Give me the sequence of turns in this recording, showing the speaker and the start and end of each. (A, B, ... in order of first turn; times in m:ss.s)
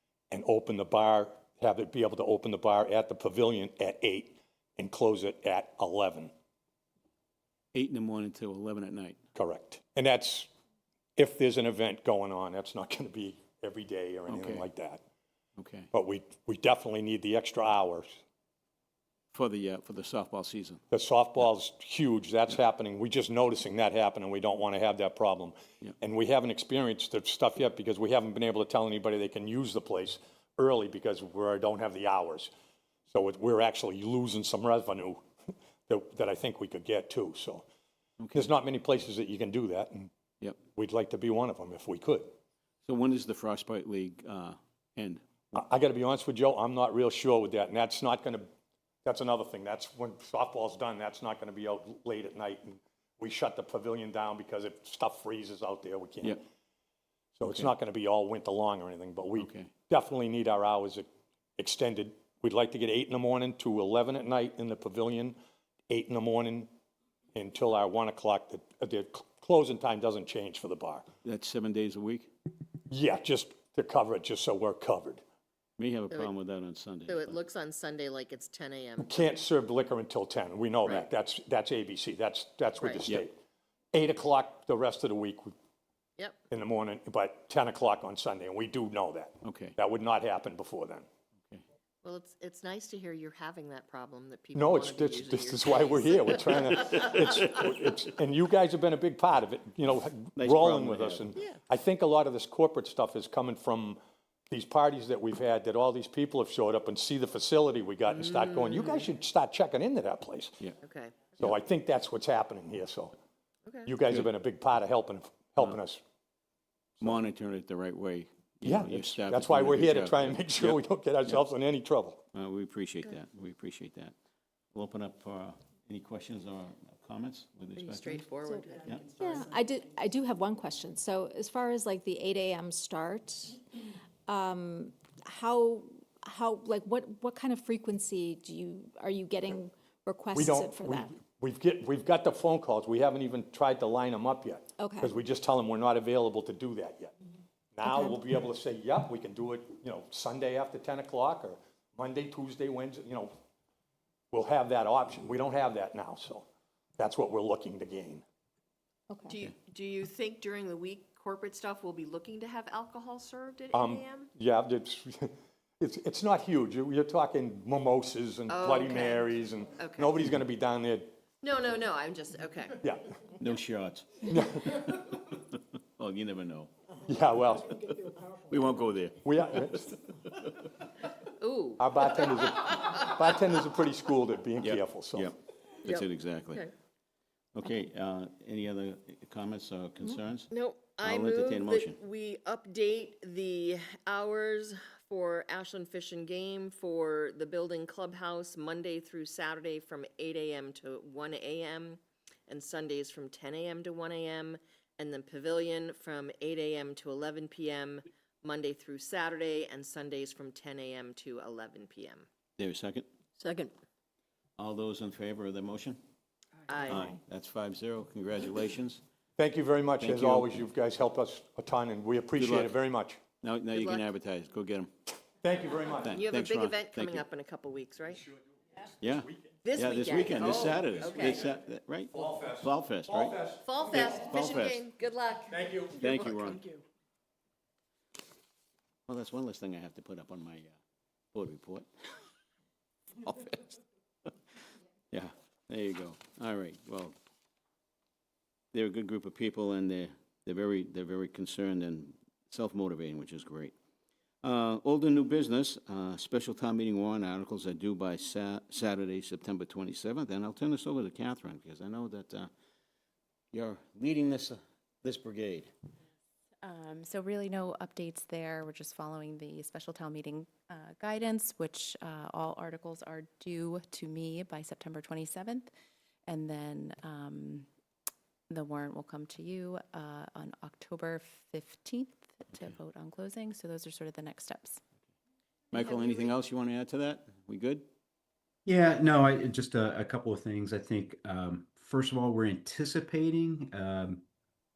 0:00.3-0:06.3 A
0:07.7-0:09.2 B
0:09.4-0:10.5 A
0:11.2-0:15.0 A
0:14.3-0:14.6 B
0:15.6-0:15.9 B
0:15.9-0:18.2 A
0:19.3-0:20.8 B
0:20.9-0:32.5 A
0:33.1-0:35.2 A
0:35.9-0:37.7 A
0:38.2-0:38.5 B
0:38.3-0:40.1 A
0:40.8-0:42.3 A
0:42.8-0:45.2 B
0:45.5-0:48.5 A
0:49.0-0:56.4 A
0:57.4-1:01.1 A
0:57.4-0:57.7 B
0:59.4-0:59.7 B
1:01.6-1:05.4 A
1:05.9-1:06.7 A
1:07.4-1:11.1 A
1:11.2-1:12.3 B
1:12.9-1:15.2 A
1:15.8-1:17.4 B
1:17.1-1:19.3 C
1:19.0-1:23.4 A
1:22.8-1:23.0 C
1:23.9-1:25.5 A
1:26.5-1:31.1 A
1:29.4-1:29.8 B
1:32.0-1:37.6 C
1:34.6-1:44.0 A
1:40.4-1:41.2 B
1:44.5-1:50.6 A
1:48.1-1:49.1 C
1:50.8-1:51.4 C
1:51.4-1:53.2 A
1:53.7-1:53.9 C
1:53.9-1:56.0 A
1:57.0-2:01.4 B
1:58.6-2:02.2 A
2:02.3-2:04.1 B
2:04.7-2:08.3 B
2:07.8-2:09.5 C
2:08.4-2:13.6 D
2:08.8-2:09.2 B
2:14.3-2:21.2 D
2:20.4-2:27.1 A
2:24.8-2:25.2 D
2:27.8-2:33.3 A
2:27.8-2:28.2 D
2:34.3-2:36.5 A
2:37.0-2:38.2 A
2:39.1-2:39.4 D
2:39.3-2:44.3 C
2:43.7-2:51.2 A
2:48.5-2:50.2 C
2:51.4-2:52.8 C
2:52.8-2:53.1 A
2:53.4-2:56.7 B
2:54.3-2:54.8 A
2:57.1-2:57.8 A
2:58.4-3:00.6 B
2:59.2-2:59.9 A
3:01.4-3:02.3 C
3:01.8-3:05.3 A
3:04.6-3:06.7 B
3:05.9-3:06.7 C
3:07.6-3:12.0 B
3:10.5-3:32.3 C
3:32.6-3:33.1 B
3:34.6-3:36.0 B
3:36.7-3:37.1 C
3:36.9-3:39.0 B
3:39.4-3:43.2 A
3:40.0-3:40.6 B
3:42.4-3:42.8 B
3:43.4-3:44.9 B
3:43.7-3:44.1 C
3:45.4-3:46.2 A
3:46.0-3:47.2 B
3:46.1-3:48.2 C
3:49.0-3:54.8 B
3:49.6-3:51.5 C
3:52.1-3:53.6 A
3:53.6-3:55.7 C
3:55.5-3:56.0 A
3:55.9-3:56.7 B
3:59.1-4:00.8 B
4:01.3-4:01.9 B
4:03.2-4:03.8 B
4:05.1-4:07.2 B
4:08.7-4:13.7 B
4:14.4-4:22.5 B
4:23.5-4:25.7 B
4:26.6-4:35.7 E
4:36.3-4:37.7 E
4:38.5-4:44.8 E
4:45.7-4:47.9 B
4:48.6-4:54.2 F